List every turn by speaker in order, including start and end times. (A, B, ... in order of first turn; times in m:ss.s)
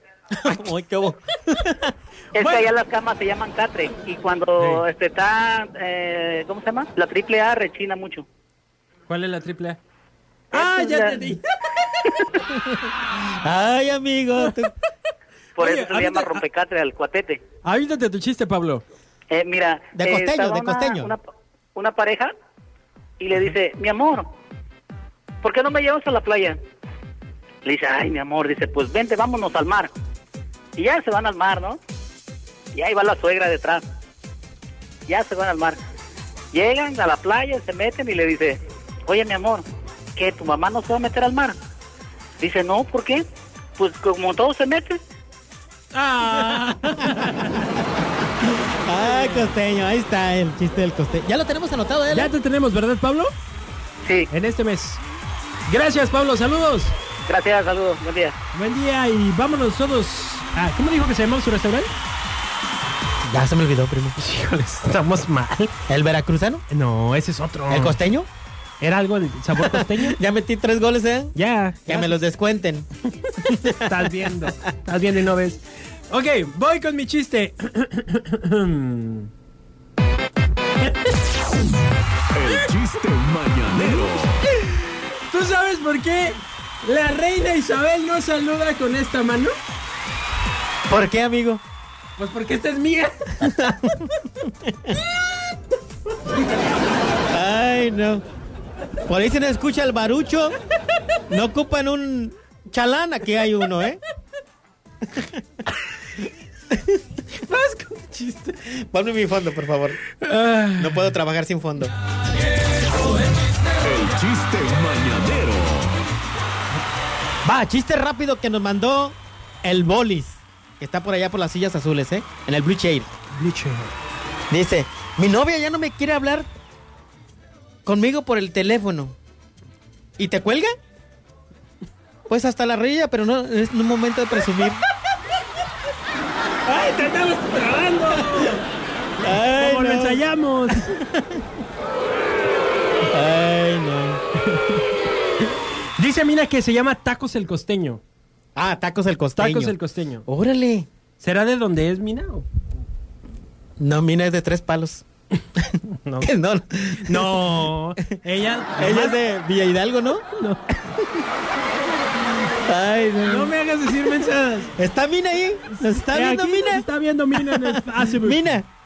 0:00.3-0:02.6 A
0:02.3-0:08.2 B
0:04.6-0:04.8 C
0:09.1-0:09.8 C
0:10.5-0:12.4 C
0:10.5-0:11.2 B
0:12.5-0:14.7 A
0:15.6-0:17.4 B
0:15.6-0:16.4 C
0:17.6-0:18.8 C
0:19.3-0:21.2 B
0:20.0-0:21.1 A
0:21.8-0:22.3 B
0:23.2-0:24.3 B
0:25.4-0:26.6 B
0:27.6-0:29.9 B
0:30.8-0:31.8 B
0:32.7-0:33.8 B
0:35.1-0:35.8 B
0:36.5-0:41.5 B
0:42.4-0:43.2 B
0:43.8-0:45.0 B
0:45.9-0:47.7 C
0:47.0-0:47.7 A
0:48.8-0:52.3 A
0:48.9-0:49.6 C
0:52.1-0:53.3 C
0:54.3-0:55.0 C
0:55.6-0:57.0 C
0:57.2-0:58.3 B
0:58.5-1:01.9 C
1:03.3-1:04.1 A
1:04.2-1:05.7 C
1:05.9-1:06.6 A
1:06.7-1:08.0 C
1:07.7-1:08.3 A
1:08.8-1:10.2 C
1:09.6-1:11.3 A
1:11.3-1:12.3 C
1:11.8-1:12.9 A
1:13.2-1:19.3 C
1:13.4-1:14.2 A
1:22.3-1:24.4 D
1:23.7-1:29.6 C
1:30.9-1:31.6 A
1:32.2-1:33.8 C
1:33.5-1:35.0 A
1:37.3-1:38.2 A
1:39.1-1:40.6 A
1:41.3-1:44.0 A
1:47.3-1:48.6 C
1:48.8-1:50.0 A
1:50.1-1:51.1 C
1:50.8-1:51.9 A
1:53.8-1:56.0 D
1:57.4-2:03.1 A
2:03.3-2:03.9 C
2:04.5-2:06.5 A
2:07.8-2:09.2 A
2:10.2-2:10.7 A
2:12.3-2:14.8 A
2:16.6-2:18.6 C
2:19.2-2:21.4 A
2:19.2-2:21.0 C
2:23.0-2:24.2 A
2:24.4-2:24.8 C
2:25.4-2:28.0 C
2:28.5-2:29.7 A
2:29.4-2:30.2 C
2:30.2-2:30.9 A
2:31.2-2:32.7 C
2:33.8-2:35.0 A
2:35.8-2:36.4 C
2:36.2-2:38.1 A
2:37.0-2:39.2 C
2:38.8-2:40.2 A
2:40.3-2:40.9 C
2:42.6-2:43.5 A
2:43.2-2:44.7 C
2:44.8-2:46.8 A
2:45.7-2:48.6 C
2:47.4-2:48.6 A